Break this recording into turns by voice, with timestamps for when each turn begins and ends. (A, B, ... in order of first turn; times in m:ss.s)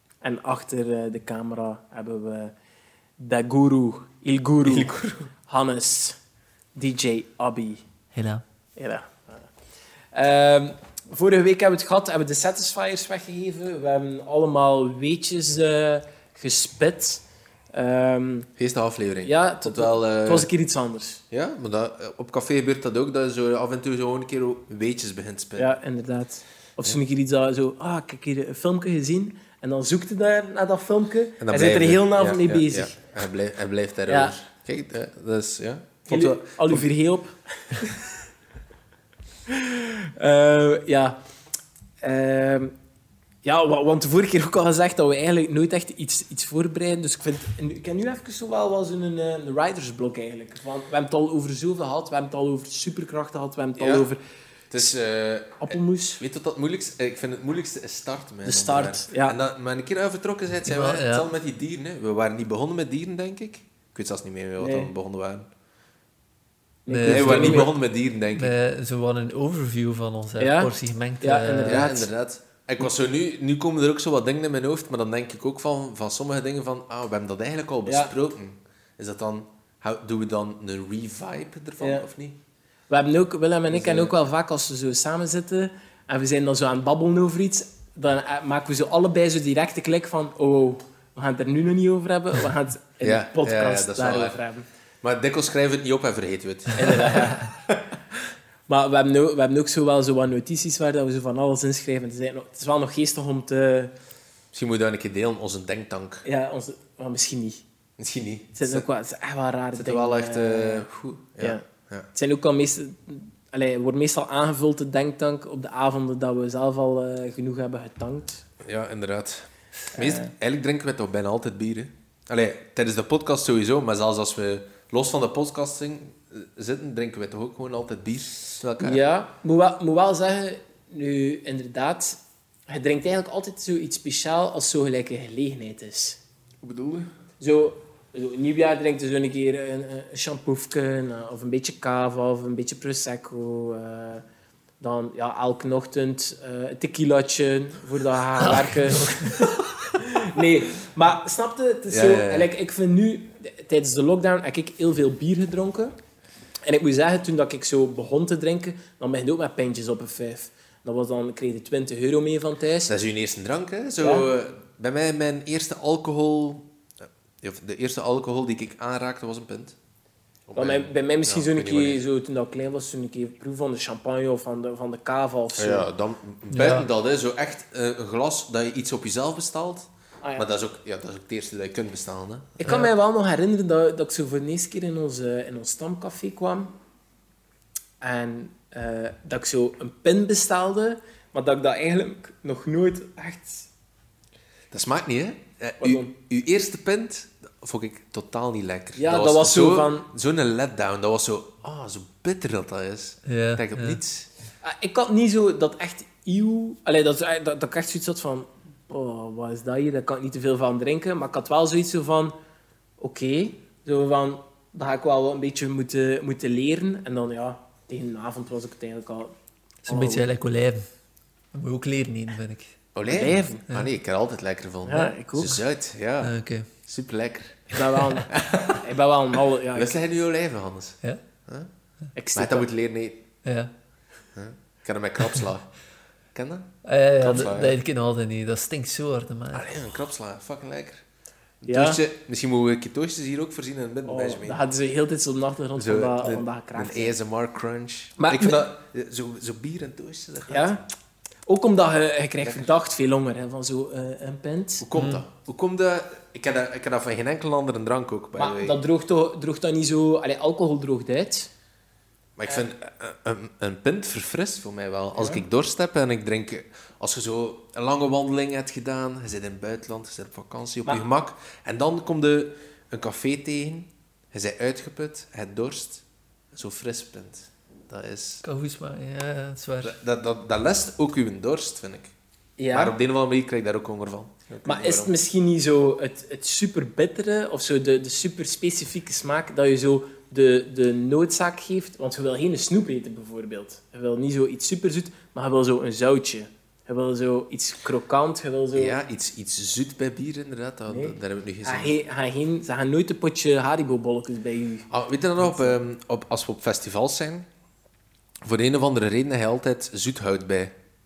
0:00.2-0:02.5 A
0:03.2-0:06.2 A
0:04.6-0:05.2 B
0:06.7-0:07.8 A
0:08.1-0:08.4 C
0:08.8-0:09.5 A
0:10.1-0:18.5 A
0:18.6-0:20.5 B
0:19.2-0:21.2 A
0:21.3-0:25.7 B
0:25.6-0:33.0 A
0:31.4-0:36.9 B
0:34.1-0:34.3 A
0:36.1-0:38.0 A
0:39.5-0:41.2 A
0:42.0-0:42.7 A
0:43.4-0:54.2 A
0:53.8-0:54.1 B
0:54.7-1:05.5 B
0:55.6-0:56.2 A
0:58.4-0:59.4 A
1:00.7-1:01.2 C
1:04.6-1:04.9 A
1:06.8-1:07.7 A
1:06.9-1:07.7 C
1:07.1-1:08.5 B
1:08.3-1:12.0 C
1:10.4-1:12.1 A
1:11.6-1:22.4 B
1:17.8-1:18.1 A
1:21.8-1:22.0 A
1:22.9-1:34.6 A
1:23.7-1:24.1 B
1:33.0-1:34.4 B
1:35.0-1:37.8 B
1:36.7-1:37.5 A
1:38.7-1:43.9 A
1:44.5-1:46.2 B
1:46.2-1:47.6 A
1:48.0-1:48.8 B
1:48.6-1:50.9 A
1:49.7-1:52.1 B
1:52.1-1:58.4 A
1:58.6-2:09.0 B
1:59.9-2:00.3 A
2:08.8-2:16.2 A
2:16.6-2:17.1 B
2:17.4-2:24.2 A
2:24.8-2:35.9 A
2:28.4-2:29.2 C
2:31.9-2:32.5 B
2:36.6-2:42.9 A
2:42.9-2:46.7 B
2:44.0-2:44.3 A
2:47.4-2:49.7 B
2:50.5-2:52.0 B
2:50.5-2:55.9 A
2:55.6-3:02.6 B
2:56.5-2:56.9 C
3:02.6-3:06.7 A
3:08.0-3:13.7 A
3:14.7-3:24.3 B
3:15.8-3:16.1 A
3:19.0-3:20.1 A
3:23.3-3:24.0 C
3:24.6-3:32.3 A
3:33.0-3:39.3 A
3:39.8-3:40.2 A
3:39.9-3:40.8 C
3:41.5-3:42.7 C
3:42.9-3:48.8 B
3:43.1-3:43.6 A
3:44.8-3:45.6 A
3:46.2-3:46.7 C
3:47.7-3:50.0 A
3:49.7-3:51.7 B
3:52.2-3:52.7 A
3:52.3-3:53.2 B
3:53.4-3:53.7 C
3:54.3-3:55.7 B
3:56.3-3:57.8 B
3:56.8-3:59.7 C
3:59.5-4:01.0 B
4:01.6-4:04.6 B
4:01.7-4:02.0 A
4:04.0-4:07.1 A
4:05.8-4:10.8 B
4:08.2-4:08.6 A
4:10.5-4:10.8 A
4:11.5-4:14.8 A
4:14.8-4:18.8 B
4:14.9-4:15.2 C
4:18.4-4:21.5 A
4:22.4-4:38.4 B
4:38.4-4:40.0 C
4:39.8-4:42.1 B
4:42.6-4:42.9 A
4:42.7-4:45.1 B
4:44.6-4:59.0 A
4:58.7-5:01.9 B
5:00.9-5:04.9 A
5:04.9-5:07.5 B
5:05.4-5:05.7 A
5:08.4-5:10.7 B